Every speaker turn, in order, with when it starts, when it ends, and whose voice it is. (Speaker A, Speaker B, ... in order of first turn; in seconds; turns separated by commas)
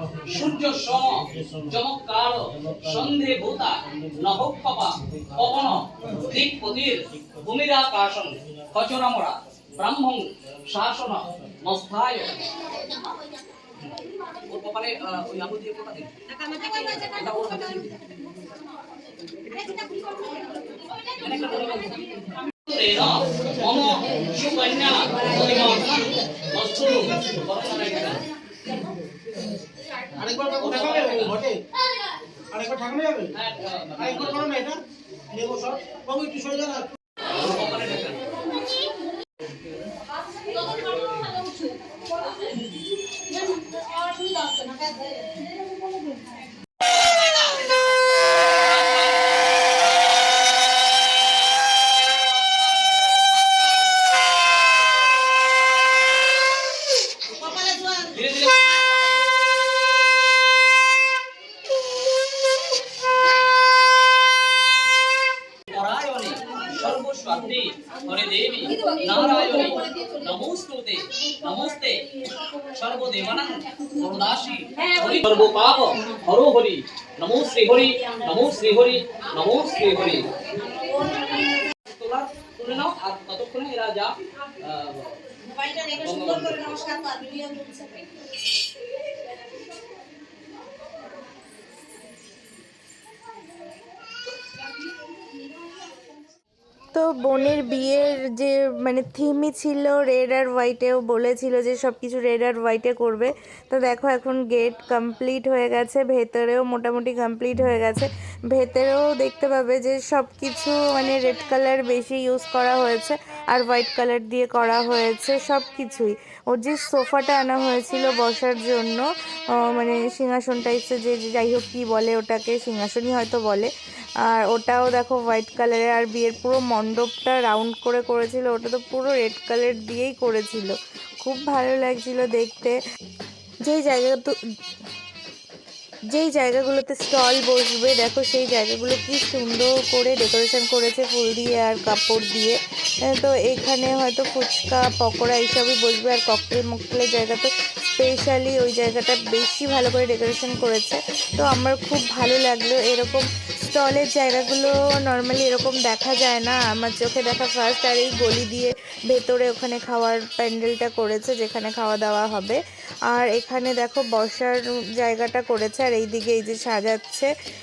Speaker A: 0.2-12.7, Speaker A: 14.4-17.9, Speaker A: 21.0-28.2, Speaker B: 30.2-31.6, Speaker A: 30.2-31.4, Speaker B: 32.5-33.3, Speaker A: 33.3-34.5, Speaker B: 34.4-37.0, Speaker A: 37.3-38.3, Speaker A: 57.6-58.8, Speaker A: 65.7-87.9, Speaker C: 96.9-123.7, Speaker C: 124.2-132.8, Speaker C: 133.7-134.3, Speaker C: 136.1-142.6, Speaker C: 143.1-162.6, Speaker C: 163.1-167.3